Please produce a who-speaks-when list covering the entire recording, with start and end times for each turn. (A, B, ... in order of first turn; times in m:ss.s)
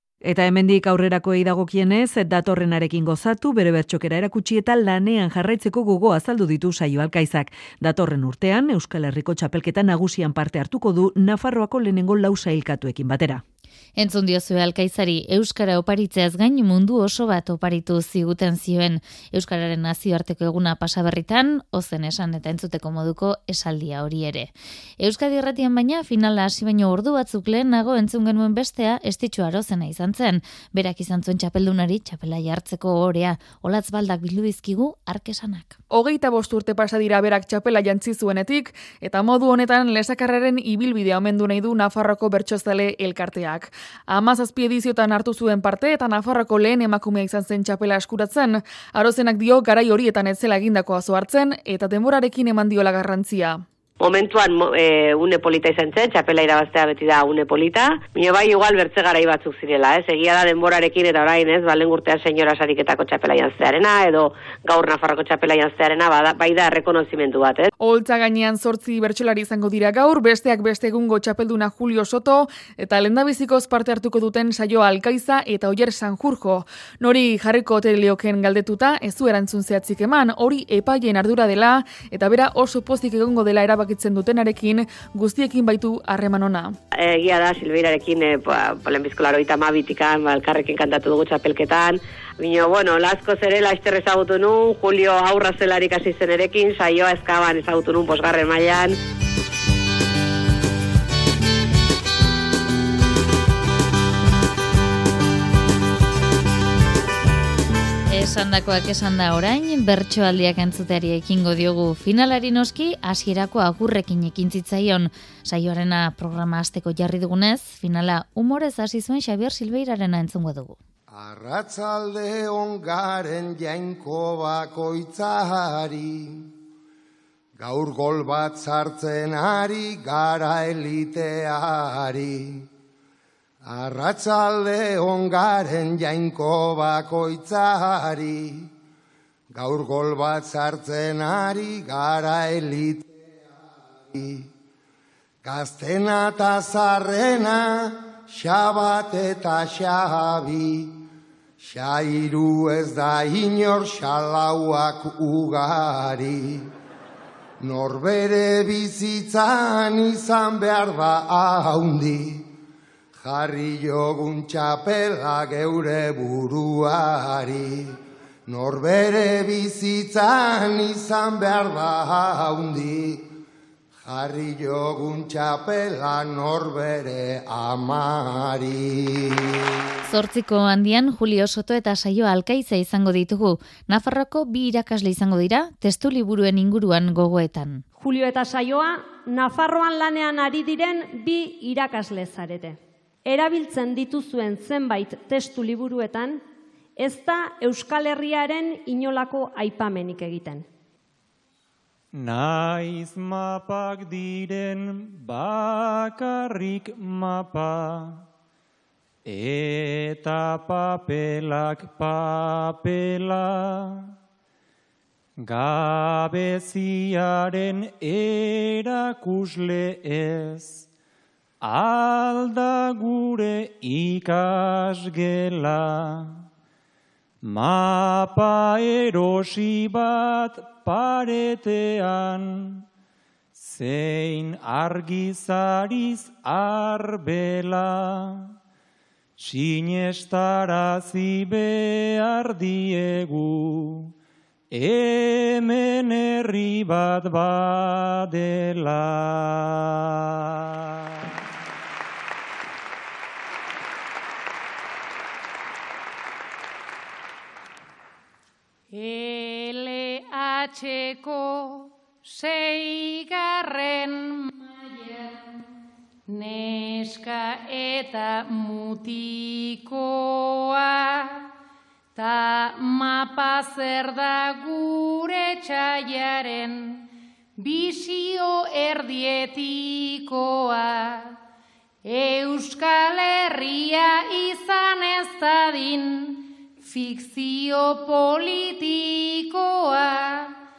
0:00.2-0:13.4 A
0:14.0-0:35.8 B
0:35.9-0:53.6 C
0:54.0-1:07.7 D
1:07.8-1:26.8 C
1:27.0-1:39.0 D
1:48.1-2:00.8 B
2:01.1-2:06.5 E
2:07.6-2:12.6 E
2:13.6-2:18.7 E
2:19.5-2:24.5 E
2:25.4-2:31.0 E
2:31.6-2:36.7 E
2:37.6-2:42.5 E
2:43.2-2:53.3 E
2:54.0-2:59.7 E
3:00.1-3:07.8 B
3:08.0-3:16.4 F
3:17.0-3:20.6 F
3:22.1-3:28.2 G
3:29.2-3:34.1 G
3:35.4-3:40.8 G
3:41.6-3:46.4 G
3:47.4-3:52.8 G
3:53.6-3:58.5 G
3:59.4-4:04.1 G
4:04.7-4:11.3 G
4:18.9-4:25.6 H
4:26.3-4:31.5 H
4:32.1-4:41.4 H
4:42.0-4:50.6 H